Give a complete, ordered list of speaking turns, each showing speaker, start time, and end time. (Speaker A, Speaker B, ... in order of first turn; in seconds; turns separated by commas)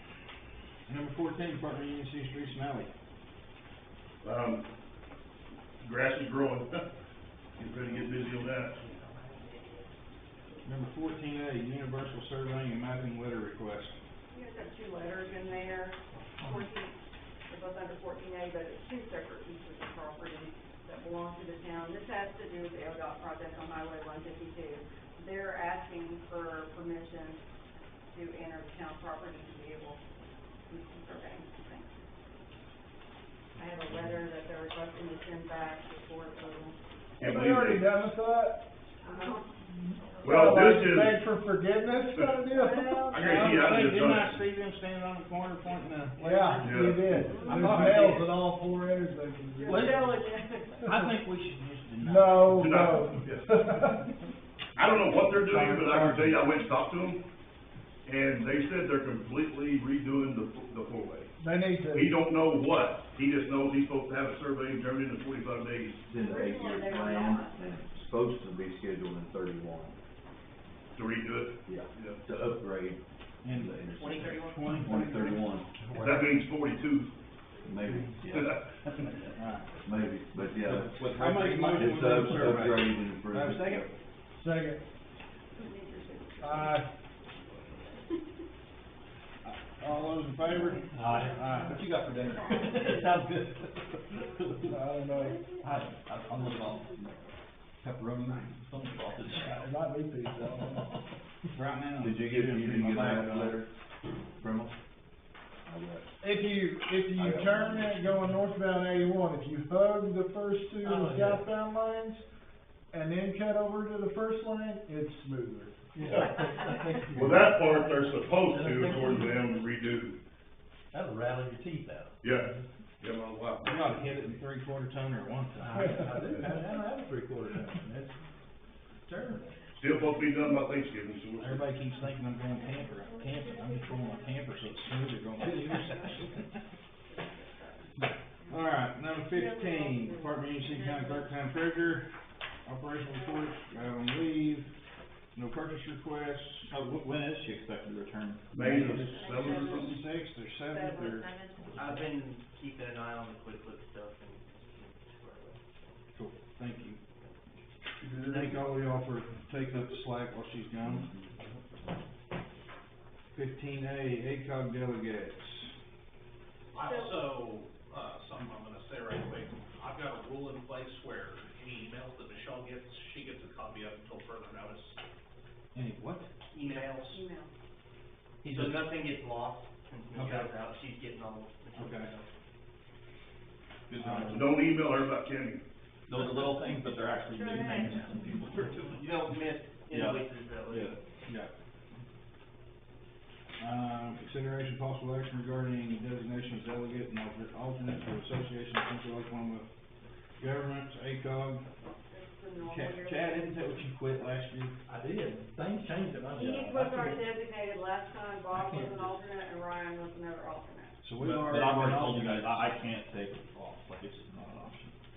Speaker A: 0.9-2.9, Speaker B: 4.2-4.6, Speaker B: 5.8-6.8, Speaker B: 7.5-8.7, Speaker C: 8.8-9.9, Speaker A: 10.6-13.9, Speaker D: 14.3-16.9, Speaker D: 17.5-27.4, Speaker D: 28.1-30.0, Speaker D: 30.7-31.9, Speaker D: 33.5-36.8, Speaker B: 37.2-38.1, Speaker E: 37.2-38.6, Speaker D: 39.0-39.4, Speaker B: 40.2-41.3, Speaker E: 40.2-43.2, Speaker D: 42.5-43.6, Speaker B: 43.1-44.4, Speaker A: 43.2-46.2, Speaker E: 46.2-50.1, Speaker D: 46.2-48.1, Speaker B: 46.6-47.1, Speaker A: 47.4-48.2, Speaker D: 49.5-50.9, Speaker F: 49.7-50.2, Speaker A: 50.9-52.6, Speaker E: 52.0-54.0, Speaker B: 52.5-53.5, Speaker B: 54.8-57.2, Speaker A: 55.4-56.4, Speaker B: 58.0-61.3, Speaker E: 61.4-62.2, Speaker B: 61.9-66.0, Speaker G: 66.1-70.0, Speaker D: 66.2-67.5, Speaker B: 70.9-72.2, Speaker G: 71.7-75.7, Speaker A: 73.4-75.3, Speaker C: 73.9-75.2, Speaker B: 76.0-77.1, Speaker G: 77.6-78.7, Speaker B: 78.3-79.3, Speaker A: 79.3-79.7, Speaker G: 79.8-83.9, Speaker F: 80.5-82.5, Speaker A: 81.0-83.9, Speaker E: 84.3-84.8, Speaker D: 85.5-86.8, Speaker E: 86.4-86.9, Speaker D: 87.4-88.2, Speaker A: 89.4-91.7, Speaker F: 91.1-94.7, Speaker D: 92.5-93.1, Speaker D: 94.6-97.2, Speaker E: 94.7-95.4, Speaker F: 95.6-97.2, Speaker F: 97.8-99.7, Speaker E: 99.6-100.9, Speaker A: 101.5-103.6, Speaker G: 102.0-103.7, Speaker G: 104.3-104.7, Speaker G: 105.6-106.0, Speaker E: 106.2-112.2, Speaker G: 107.1-107.9, Speaker F: 110.8-111.4, Speaker E: 112.9-117.6, Speaker B: 116.0-116.4, Speaker B: 117.1-120.2, Speaker F: 118.4-119.5, Speaker F: 120.9-122.1, Speaker B: 122.2-122.5, Speaker B: 123.0-123.9, Speaker A: 123.6-125.8, Speaker F: 125.5-128.1, Speaker F: 129.1-129.4, Speaker B: 129.8-131.7, Speaker A: 131.4-136.4, Speaker D: 133.1-134.3, Speaker D: 135.9-136.3, Speaker D: 137.1-137.9, Speaker A: 138.0-142.1, Speaker D: 139.3-141.3, Speaker A: 142.7-144.7, Speaker A: 145.3-146.7, Speaker F: 146.7-148.5, Speaker B: 148.5-150.0, Speaker A: 148.5-152.1, Speaker D: 149.1-149.9, Speaker D: 150.7-151.1, Speaker C: 151.8-156.0, Speaker A: 156.1-157.0, Speaker B: 158.0-158.7, Speaker A: 158.2-161.1, Speaker A: 163.3-165.7, Speaker H: 166.7-175.0, Speaker D: 166.8-167.3, Speaker A: 175.7-176.3, Speaker C: 176.5-177.1, Speaker H: 176.6-177.2, Speaker D: 177.1-177.5, Speaker A: 178.4-178.9, Speaker C: 178.6-182.2, Speaker A: 180.1-180.5, Speaker A: 181.8-182.1, Speaker B: 183.9-185.6, Speaker A: 183.9-184.6, Speaker F: 186.1-189.3, Speaker D: 187.3-188.2, Speaker C: 188.9-190.9, Speaker F: 189.9-190.2, Speaker A: 190.7-191.5, Speaker F: 190.8-191.3, Speaker A: 193.6-199.7, Speaker A: 200.4-201.6, Speaker D: 202.1-203.6, Speaker A: 202.6-204.7, Speaker C: 204.9-207.2, Speaker D: 206.3-211.0, Speaker C: 208.7-209.1, Speaker A: 211.0-212.6, Speaker F: 211.2-214.9